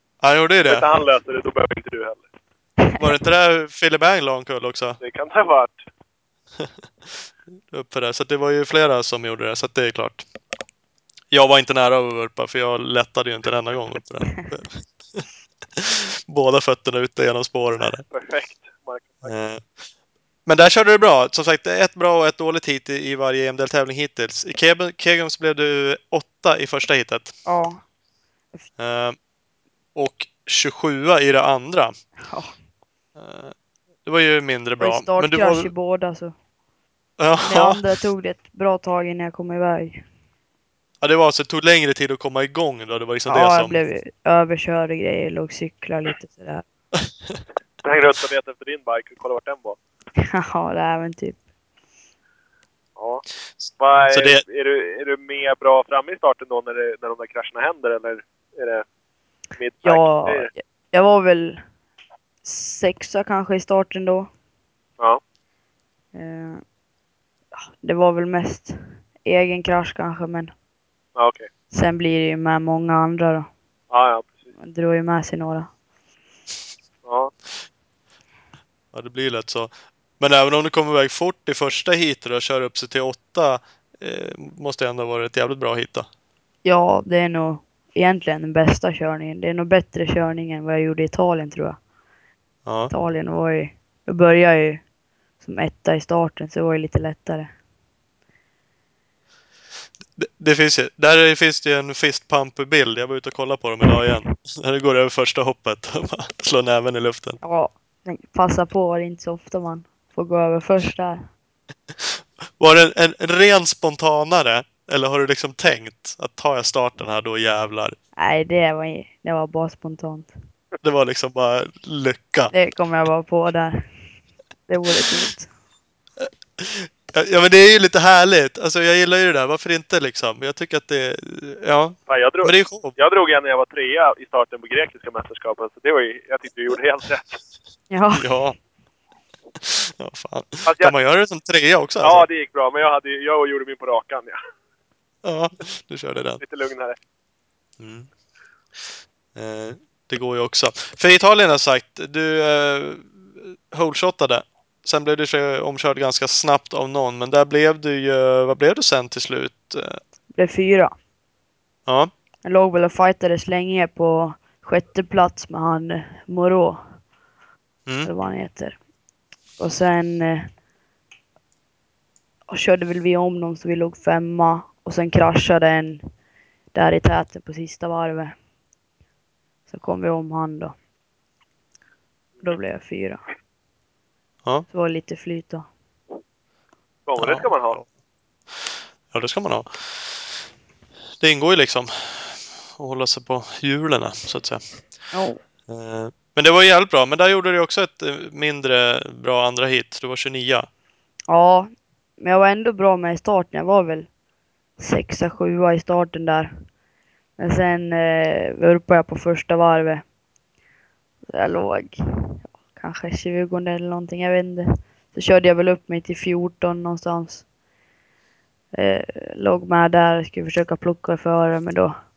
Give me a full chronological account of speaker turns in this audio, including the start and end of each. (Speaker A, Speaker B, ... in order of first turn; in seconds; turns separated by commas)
Speaker A: 0.2-0.8, Speaker B: 0.6-2.2, Speaker A: 3.0-5.0, Speaker B: 5.0-5.8, Speaker A: 7.7-10.2, Speaker A: 11.3-15.2, Speaker A: 15.8-18.0, Speaker B: 18.1-19.3, Speaker A: 19.2-19.7, Speaker A: 20.4-27.4, Speaker C: 27.4-27.8, Speaker A: 28.8-29.2, Speaker A: 29.9-31.9, Speaker C: 32.3-32.5, Speaker A: 33.1-35.7, Speaker C: 34.8-36.3, Speaker A: 37.2-37.8, Speaker C: 37.4-40.0, Speaker A: 41.0-43.8, Speaker C: 43.3-46.6, Speaker B: 47.8-49.8, Speaker C: 50.3-51.4, Speaker B: 53.0-53.2, Speaker B: 53.8-58.8, Speaker A: 54.1-54.4, Speaker B: 59.5-60.5, Speaker C: 59.8-61.6, Speaker C: 62.4-64.3, Speaker C: 66.1-66.6, Speaker C: 67.8-70.5, Speaker B: 71.2-71.5, Speaker C: 71.7-73.5, Speaker B: 73.9-74.5, Speaker C: 74.6-75.7, Speaker B: 77.0-77.3, Speaker A: 78.9-86.1, Speaker C: 86.6-91.8, Speaker A: 92.6-92.9, Speaker C: 92.9-94.8, Speaker C: 95.4-97.5, Speaker A: 100.2-107.4, Speaker C: 107.4-111.2, Speaker A: 112.0-118.0, Speaker C: 118.2-120.3, Speaker A: 120.8-122.5, Speaker C: 122.5-123.9, Speaker C: 124.7-125.5, Speaker A: 126.2-132.9, Speaker B: 132.1-137.4, Speaker C: 137.9-138.3, Speaker A: 138.1-138.6, Speaker A: 139.6-142.2, Speaker B: 140.7-140.9, Speaker B: 142.0-144.4, Speaker A: 145.2-146.4, Speaker B: 146.4-146.9, Speaker A: 147.8-148.1, Speaker A: 149.3-160.0, Speaker C: 160.3-160.9, Speaker C: 162.4-167.0, Speaker C: 168.0-168.8, Speaker C: 169.6-170.5, Speaker C: 172.5-176.1, Speaker C: 176.7-178.3, Speaker C: 179.7-180.7, Speaker C: 182.4-183.2, Speaker C: 184.7-185.7, Speaker B: 187.1-187.8, Speaker A: 187.2-187.8, Speaker A: 188.5-190.3, Speaker A: 191.2-194.6, Speaker C: 195.1-195.4, Speaker A: 195.7-200.7, Speaker C: 201.3-204.1, Speaker C: 204.8-206.5, Speaker C: 207.4-210.0, Speaker C: 211.3-217.5, Speaker C: 218.7-221.9